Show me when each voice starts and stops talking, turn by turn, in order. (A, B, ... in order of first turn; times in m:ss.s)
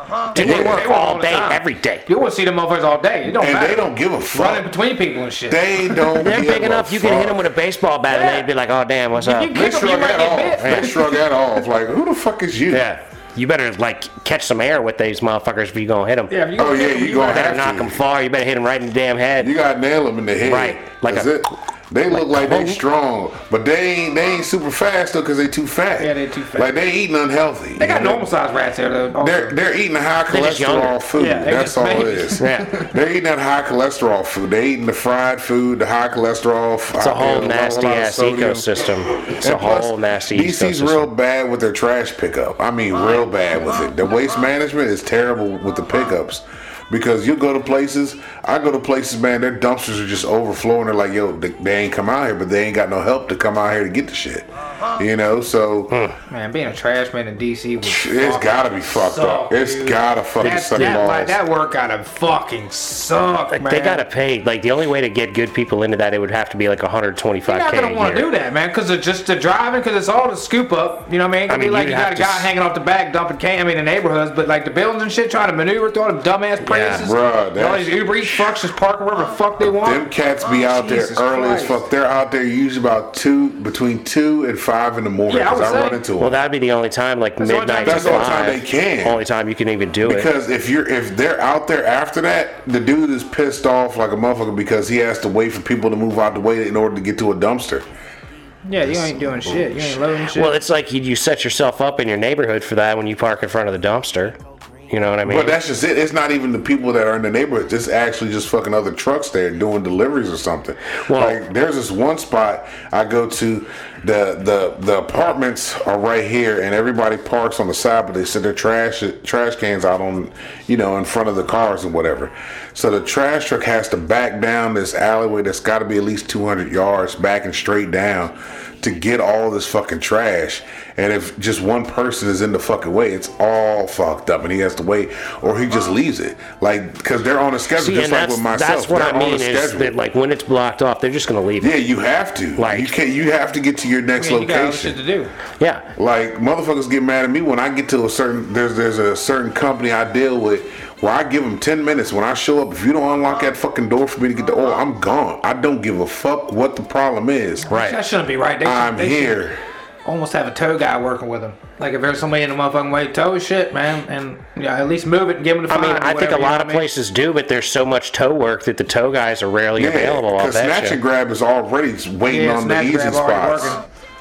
0:00.3-0:06.2 A
0:00.3-0:02.0 B
0:00.4-0:00.9 C
0:03.3-0:04.7 C
0:05.5-0:07.5 C
0:06.2-0:09.6 B
0:08.1-0:08.5 A
0:09.2-0:11.2 A
0:09.5-0:12.9 C
0:10.6-0:10.9 B
0:12.7-0:16.4 B
0:16.3-0:17.5 A
0:16.6-0:18.0 C
0:17.2-0:19.5 B
0:19.4-0:28.1 C
0:20.4-0:21.3 B
0:22.1-0:22.8 B
0:26.0-0:26.7 A
0:27.8-0:29.6 A
0:27.9-0:28.2 B
0:29.2-0:56.0 C
0:30.3-0:31.0 B
0:31.2-0:32.9 A
0:32.4-0:32.8 B
0:37.0-0:41.1 B
0:55.9-0:56.2 B
0:56.3-1:04.0 A
0:57.8-1:01.4 C
1:00.4-1:01.0 B
1:03.5-1:08.3 B
1:07.5-1:21.8 A
1:11.5-1:12.5 B
1:16.6-1:17.0 B
1:17.0-1:17.9 C
1:19.6-1:26.4 C
1:25.3-1:26.0 A
1:26.2-1:30.3 B
1:27.4-1:28.4 A
1:27.8-1:29.2 C
1:30.0-1:37.9 C
1:38.6-1:40.6 A
1:40.3-1:44.4 B
1:44.9-1:45.6 B
1:45.2-2:20.0 C
1:51.0-1:51.4 B
2:17.8-2:21.8 B
2:21.6-2:25.0 C
2:22.6-2:22.9 B
2:24.2-2:25.3 A
2:25.6-2:25.8 B
2:26.0-2:37.7 C
2:37.7-2:39.4 A
2:37.7-2:38.0 B
2:38.6-2:39.6 C
2:40.0-2:46.9 A
2:45.7-2:51.0 B
2:49.8-2:53.8 C
2:52.3-2:53.8 A